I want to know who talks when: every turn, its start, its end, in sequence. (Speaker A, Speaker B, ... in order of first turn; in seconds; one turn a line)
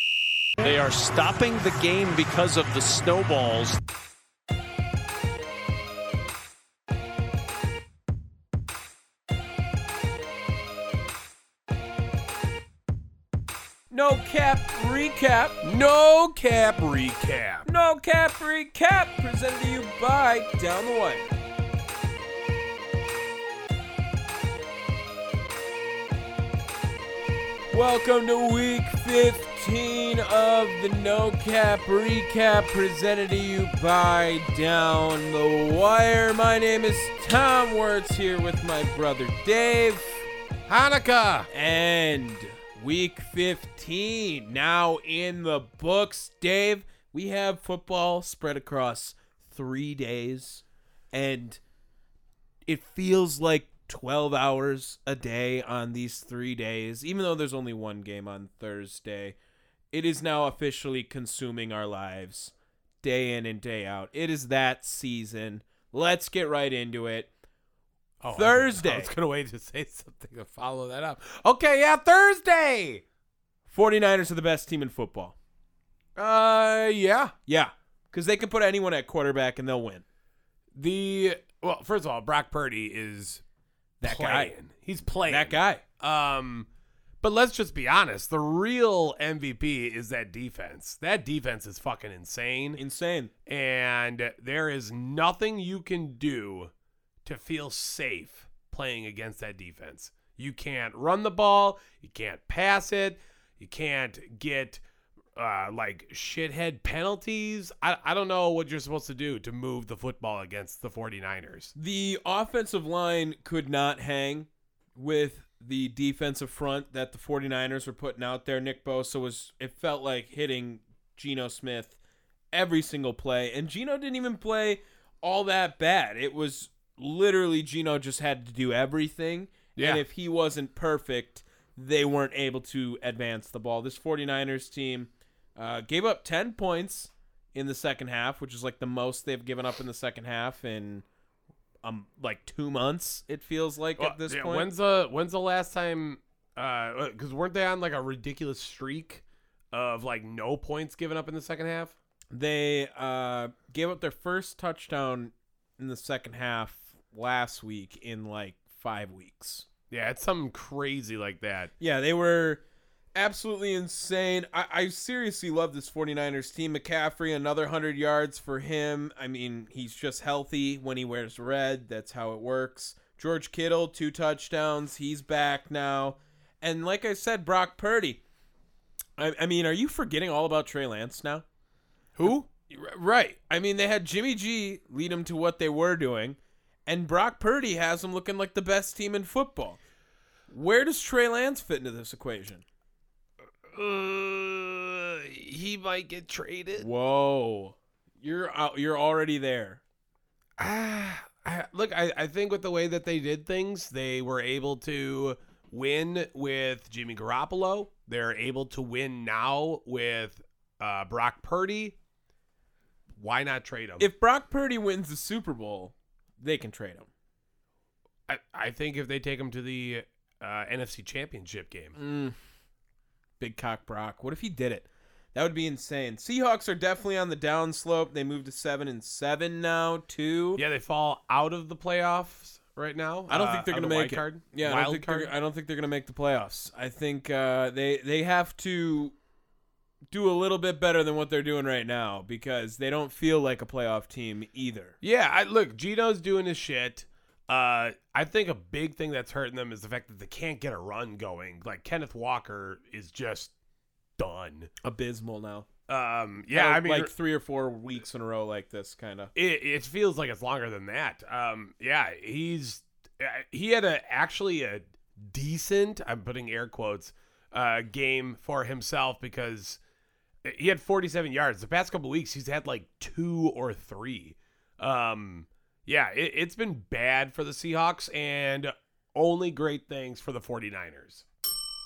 Speaker A: 0.6-3.8
Speaker B: 13.9-15.6
Speaker C: 15.6-17.7
Speaker B: 17.6-21.4
Speaker B: 27.7-40.2
Speaker C: 40.7-41.5
Speaker B: 41.5-51.6
Speaker B: 52.7-59.4
Speaker B: 59.9-67.3
Speaker C: 68.2-73.0
Speaker B: 68.3-69.1
Speaker B: 73.7-75.3
Speaker C: 76.2-77.3
Speaker B: 77.5-80.0
Speaker C: 80.7-83.4
Speaker B: 84.0-84.5
Speaker C: 84.0-86.7
Speaker B: 85.3-85.8
Speaker C: 87.2-92.8
Speaker B: 92.8-93.3
Speaker C: 93.5-96.7
Speaker C: 97.2-104.8
Speaker C: 105.3-111.7
Speaker B: 111.8-122.0
Speaker B: 122.5-141.0
Speaker C: 129.8-130.0
Speaker B: 141.8-144.7
Speaker C: 144.0-151.9
Speaker B: 152.3-159.7
Speaker C: 159.9-161.7
Speaker B: 161.8-162.6
Speaker B: 163.1-178.2
Speaker B: 179.2-181.4
Speaker C: 182.2-182.4
Speaker B: 182.2-189.8
Speaker B: 190.5-192.6
Speaker C: 193.7-196.9
Speaker B: 196.8-199.8
Speaker C: 200.6-211.9
Speaker C: 213.1-214.1
Speaker B: 214.0-217.1
Speaker C: 218.3-222.0
Speaker B: 221.9-222.3
Speaker B: 223.4-230.6
Speaker C: 230.6-235.3
Speaker B: 233.3-239.1
Speaker B: 240.1-244.9
Speaker C: 245.0-253.5
Speaker C: 254.2-254.7
Speaker B: 254.8-255.7
Speaker C: 255.9-257.1
Speaker B: 256.5-259.3
Speaker C: 259.3-269.8
Speaker C: 270.4-281.2